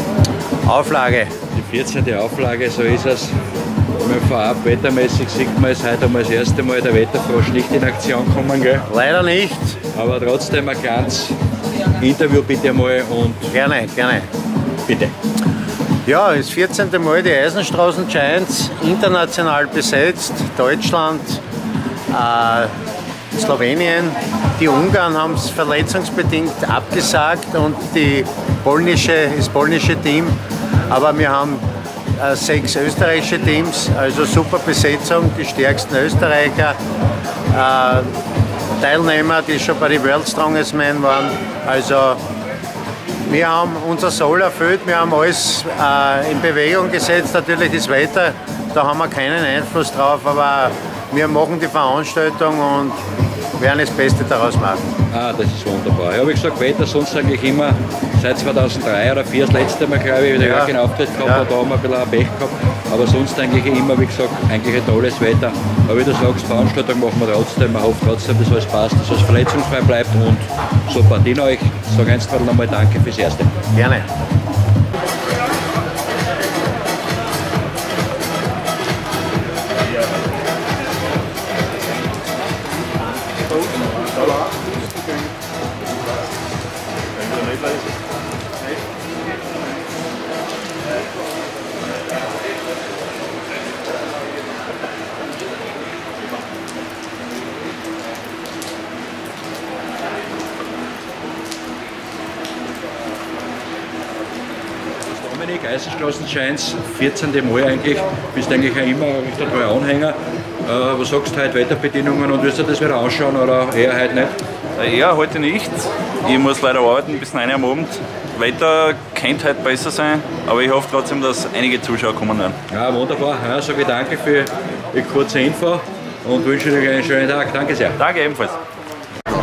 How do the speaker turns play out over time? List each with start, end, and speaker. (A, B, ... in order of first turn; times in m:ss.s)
0:00.6-0:01.3 A
0:01.5-0:03.3 B
0:04.0-0:08.8 B
0:08.9-0:09.8 A
0:09.9-0:11.3 B
0:12.0-0:13.5 B
0:13.5-0:14.3 A
0:14.8-0:15.1 B
0:16.0-0:21.4 A
0:22.1-0:22.7 A
0:23.3-0:30.4 A
0:30.9-0:31.6 A
0:32.2-0:36.8 A
0:37.5-0:38.1 A
0:38.8-0:42.2 A
0:43.3-0:53.0 A
0:53.6-0:54.8 A
0:55.1-1:13.5 B
1:00.4-1:01.4 A
1:13.7-1:14.0 A
1:45.1-1:54.4 B
1:54.8-2:02.6 C
2:02.7-2:08.0 B
2:08.0-2:08.5 C